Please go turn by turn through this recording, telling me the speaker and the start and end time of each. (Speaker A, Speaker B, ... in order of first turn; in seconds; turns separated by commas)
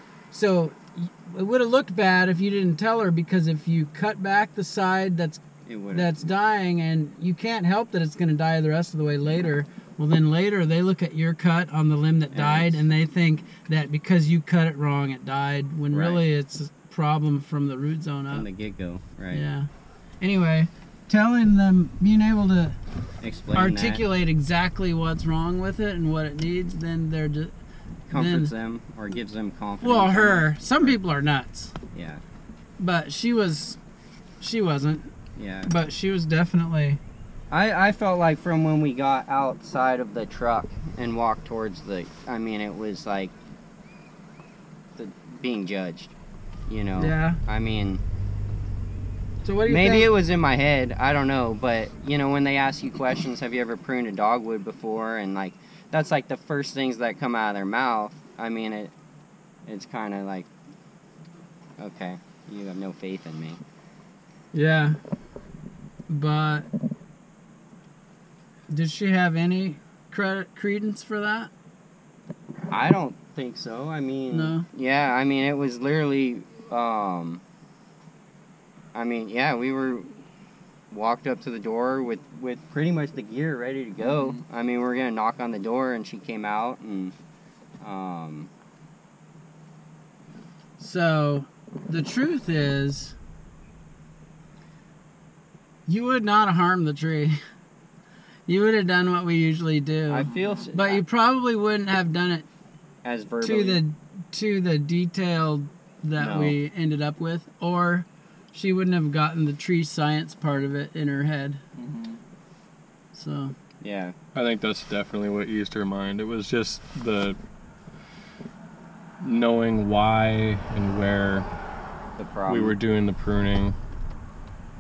Speaker A: 0.3-18.4, Speaker B: 5.7-6.2, Speaker B: 12.3-12.8, Speaker B: 15.9-16.2, Speaker B: 18.3-19.4, Speaker A: 19.3-19.7, Speaker A: 20.2-22.8, Speaker B: 23.2-24.0, Speaker A: 23.5-27.5, Speaker B: 28.1-31.0, Speaker A: 28.1-28.5, Speaker A: 29.8-31.7, Speaker B: 31.9-32.2, Speaker A: 32.8-33.8, Speaker A: 34.4-35.1, Speaker B: 35.4-35.7, Speaker A: 35.6-37.0, Speaker B: 37.5-43.3, Speaker B: 45.0-46.1, Speaker B: 46.7-48.0, Speaker A: 47.0-47.4, Speaker A: 49.4-50.1, Speaker B: 49.6-58.9, Speaker B: 59.6-60.5, Speaker B: 61.8-63.6, Speaker A: 64.5-65.0, Speaker A: 66.1-66.7, Speaker A: 68.7-71.5, Speaker B: 72.7-77.4, Speaker A: 74.3-74.7, Speaker B: 78.9-80.1, Speaker B: 80.9-87.1, Speaker B: 87.8-88.5, Speaker A: 90.8-93.2, Speaker A: 95.9-97.4, Speaker A: 98.5-102.5, Speaker B: 100.1-101.0, Speaker B: 103.0-103.8, Speaker A: 103.4-111.6, Speaker B: 106.2-106.6, Speaker C: 111.8-112.2, Speaker A: 113.1-113.5, Speaker B: 113.8-114.1, Speaker C: 114.3-117.4, Speaker C: 119.2-121.5, Speaker B: 122.2-122.8, Speaker C: 122.5-123.8